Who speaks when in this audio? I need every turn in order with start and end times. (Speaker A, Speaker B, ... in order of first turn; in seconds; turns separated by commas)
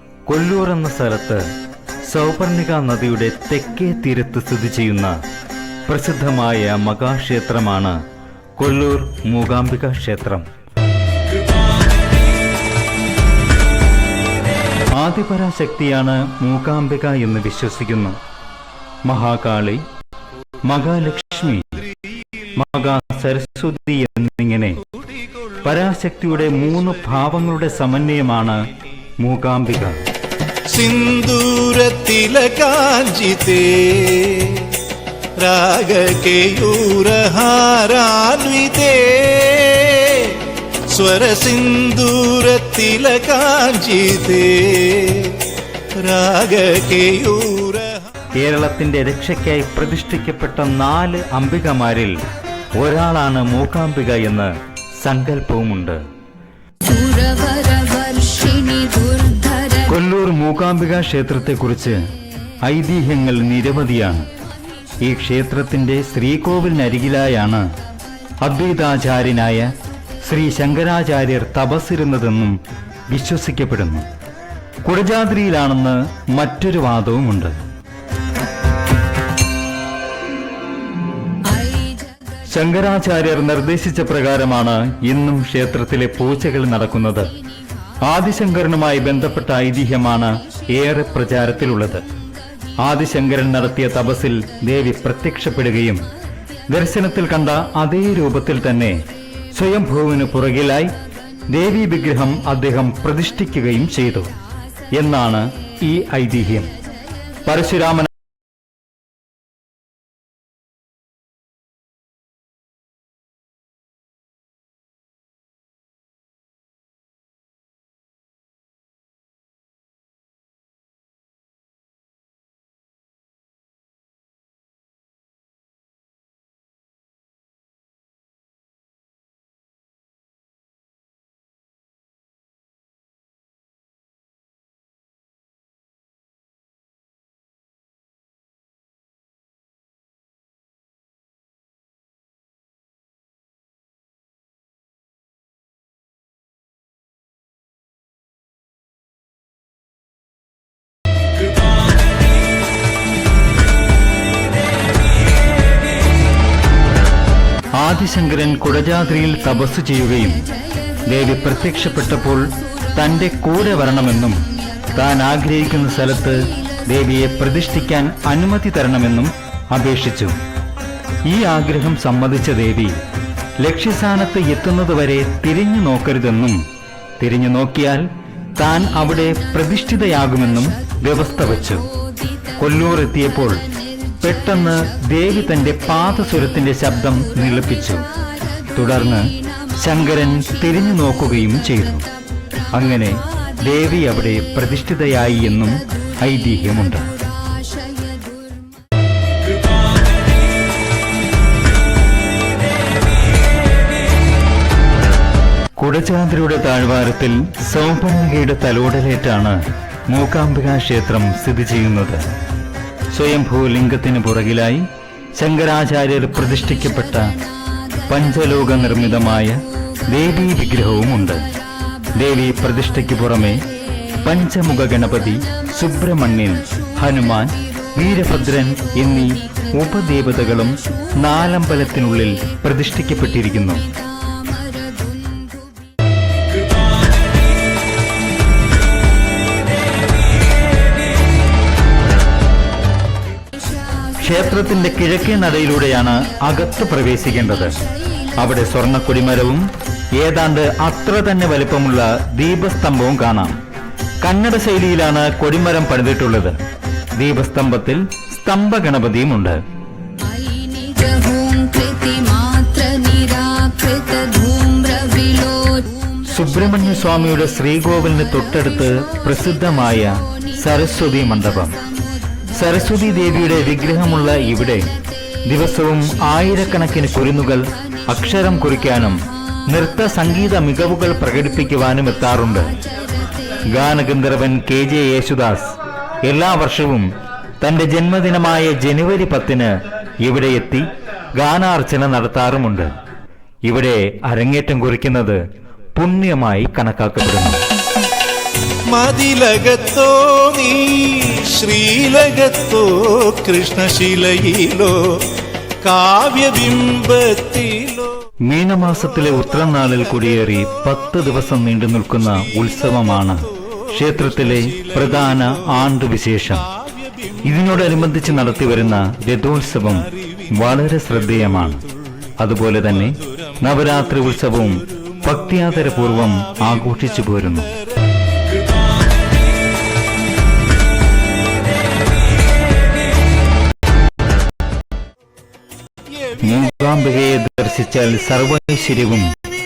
Speaker A: 0.2-5.2, Speaker A: 5.9-8.0, Speaker A: 8.6-10.4, Speaker A: 14.9-18.2, Speaker A: 19.0-19.8, Speaker A: 20.6-21.8, Speaker A: 22.4-24.8, Speaker A: 25.6-28.6, Speaker A: 29.2-30.0, Speaker B: 30.6-34.8, Speaker B: 35.3-48.1, Speaker A: 48.3-52.2, Speaker A: 52.8-56.0, Speaker C: 56.8-59.8, Speaker A: 59.8-62.0, Speaker A: 62.6-64.3, Speaker A: 65.0-67.7, Speaker A: 68.4-69.7, Speaker A: 70.2-74.0, Speaker A: 74.8-77.6, Speaker C: 81.5-82.0, Speaker A: 82.4-87.3, Speaker A: 88.0-92.0, Speaker A: 92.8-96.0, Speaker A: 96.7-99.0, Speaker A: 99.5-100.9, Speaker A: 101.5-104.3, Speaker A: 104.9-106.7, Speaker A: 107.4-108.1, Speaker A: 157.8-160.5, Speaker A: 161.0-164.4, Speaker A: 164.9-170.4, Speaker A: 171.2-173.0, Speaker A: 173.6-176.6, Speaker A: 177.2-181.9, Speaker A: 182.6-183.6, Speaker A: 184.2-188.1, Speaker A: 188.7-192.1, Speaker A: 192.7-197.1, Speaker A: 205.8-212.2, Speaker A: 213.1-217.3, Speaker A: 218.1-221.5, Speaker A: 222.1-223.6, Speaker A: 224.2-233.9, Speaker C: 234.6-235.6, Speaker A: 244.1-253.6, Speaker A: 254.2-256.6, Speaker A: 257.1-259.6, Speaker C: 260.2-266.1, Speaker A: 266.2-271.8, Speaker A: 272.5-274.9, Speaker A: 275.5-282.8, Speaker A: 283.7-287.1, Speaker A: 287.6-292.9, Speaker A: 293.6-295.4, Speaker A: 295.9-297.6, Speaker B: 298.9-308.2, Speaker A: 308.4-316.7, Speaker A: 317.4-321.8, Speaker A: 322.4-327.7, Speaker A: 336.3-339.3